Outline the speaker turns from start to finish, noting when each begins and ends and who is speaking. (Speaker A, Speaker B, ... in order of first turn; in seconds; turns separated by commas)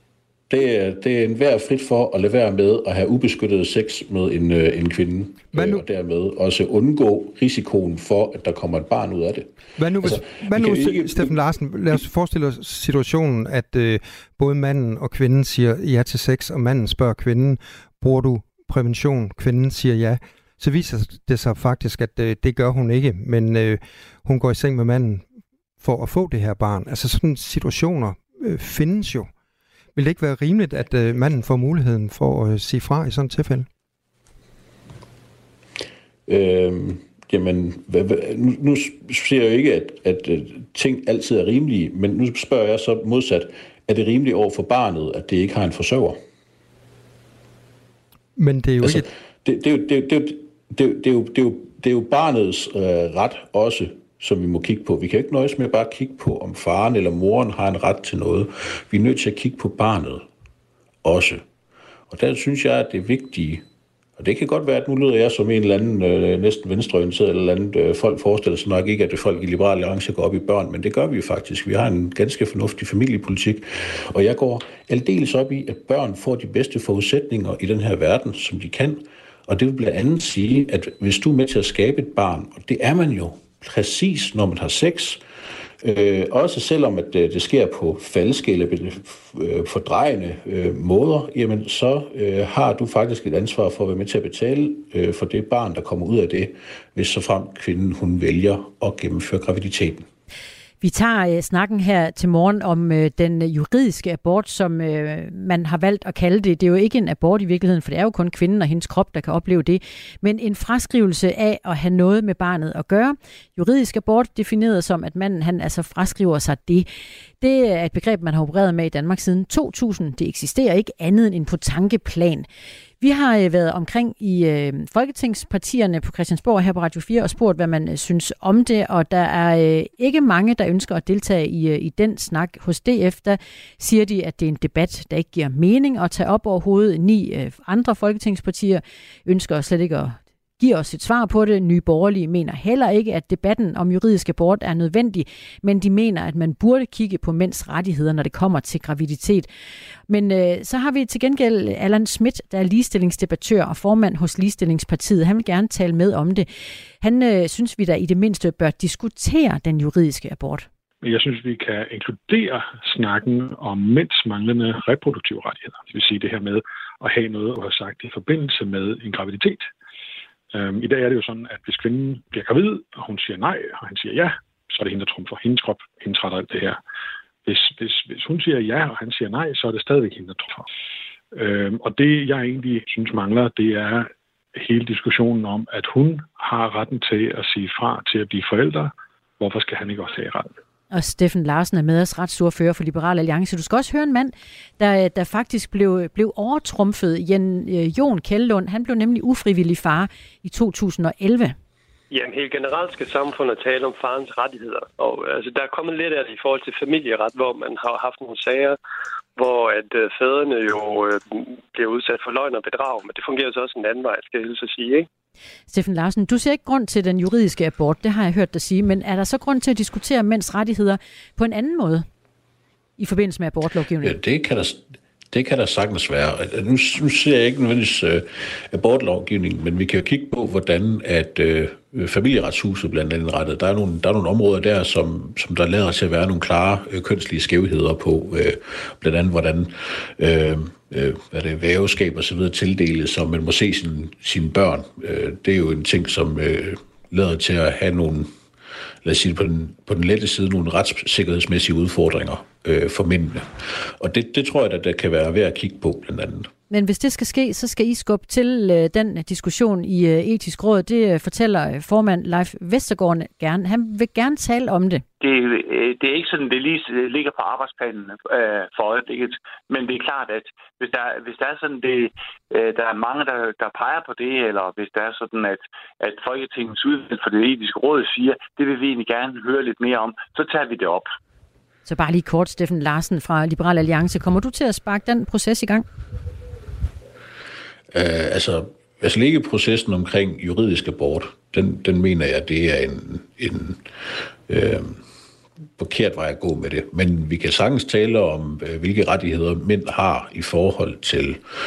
Speaker A: 0.5-11.4, Speaker B: 5.5-5.8, Speaker B: 9.8-25.2, Speaker B: 25.8-29.3, Speaker B: 29.9-33.7, Speaker A: 36.3-46.2, Speaker B: 48.4-49.1, Speaker A: 48.8-60.3, Speaker A: 61.0-61.4, Speaker A: 62.1-63.6, Speaker A: 64.2-85.2, Speaker A: 85.8-100.1, Speaker C: 100.8-116.9, Speaker C: 117.4-122.5, Speaker C: 123.0-149.5, Speaker C: 150.1-156.5, Speaker C: 157.0-160.7, Speaker D: 161.0-169.7, Speaker D: 170.5-176.8, Speaker D: 177.4-180.7, Speaker D: 181.3-190.5, Speaker C: 190.9-201.6, Speaker E: 202.1-208.8, Speaker E: 209.3-215.1, Speaker C: 215.7-222.1, Speaker C: 223.0-224.2, Speaker A: 224.0-248.3, Speaker A: 249.0-256.5, Speaker C: 256.7-265.0, Speaker F: 265.2-281.1, Speaker C: 281.9-285.9, Speaker A: 287.9-293.8, Speaker A: 294.5-295.0, Speaker A: 295.8-301.4